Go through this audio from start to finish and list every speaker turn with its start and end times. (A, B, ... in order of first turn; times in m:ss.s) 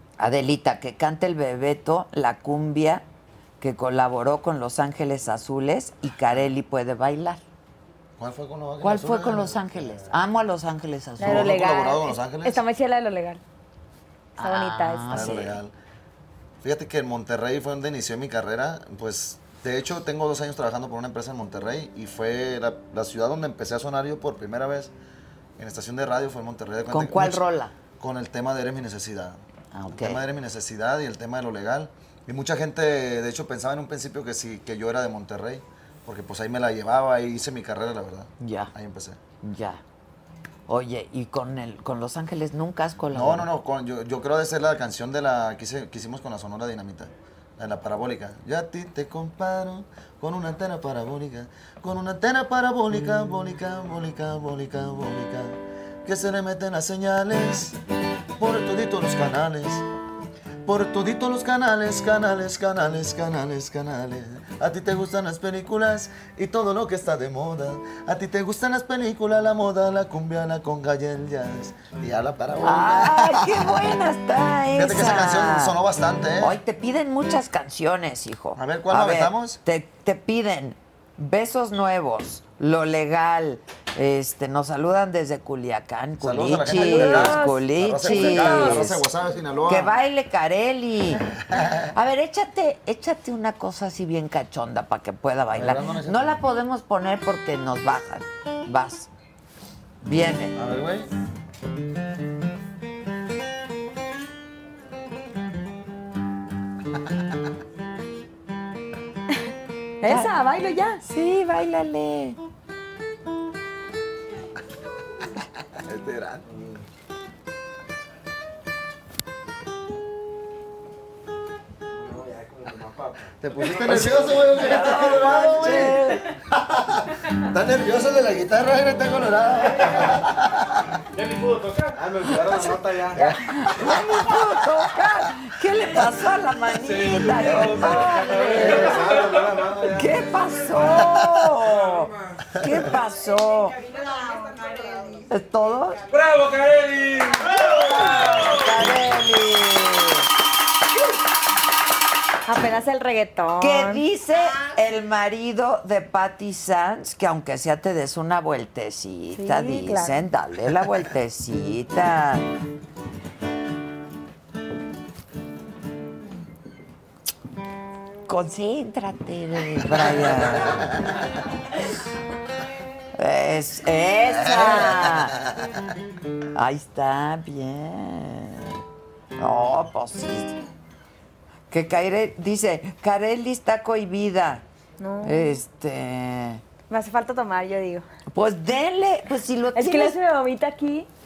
0:00.2-0:03.0 A
0:03.6-0:07.4 A
0:08.2-0:09.9 B
0:08.8-0:11.6 A
0:11.2-0:12.6 B
0:11.2-0:13.4 C
0:14.4-0:15.6 A
0:14.4-0:15.4 C
0:15.1-0:15.7 B
0:16.6-0:24.9 B
0:25.6-0:27.4 B
0:26.9-0:27.7 A
0:28.0-0:39.2 B
0:29.7-0:30.2 A
0:38.4-0:38.7 A
0:39.4-0:39.8 A
0:40.7-0:43.5 A
0:43.1-0:57.8 B
0:58.4-0:59.8 B
1:00.6-1:13.9 B
1:12.6-1:15.8 A
1:14.8-1:16.6 B
1:16.4-1:29.1 A
1:18.6-1:19.6 B
1:26.2-1:29.9 B
1:26.7-1:28.8 C
1:29.6-1:31.2 A
1:31.5-1:31.9 B
1:31.9-1:39.1 A
1:35.5-1:36.3 B
1:40.0-1:40.6 A
1:40.5-1:41.1 B
1:50.0-1:51.0 C
1:50.0-1:50.3 A
1:51.0-1:52.4 A
1:55.8-1:56.4 B
1:56.4-1:56.8 D
2:01.9-2:05.1 D
2:03.4-2:10.7 B
2:03.8-2:06.3 A
2:11.1-2:12.0 E
2:12.0-2:13.3 D
2:12.4-2:14.5 B
2:13.2-2:19.1 A
2:16.8-2:19.5 E
2:17.4-2:20.2 D
2:18.6-2:18.9 B
2:19.8-2:23.8 A
2:20.6-2:22.1 E
2:22.5-2:22.9 B
2:22.9-2:28.6 F
2:25.3-2:26.0 A
2:26.1-2:29.0 E
2:27.6-2:30.3 A
2:32.4-2:34.0 C
2:33.6-2:42.5 A
2:34.3-2:34.8 F
2:39.3-2:40.2 C
2:48.3-2:50.9 A
2:50.6-2:50.9 B
2:53.2-2:55.4 A
2:54.4-2:55.3 B
2:56.5-2:58.8 A
2:59.4-3:00.6 A
3:01.7-3:04.6 A
3:05.0-3:05.6 C
3:05.2-3:06.6 A
3:06.9-3:08.0 C
3:08.3-3:10.2 A
3:09.7-3:11.1 C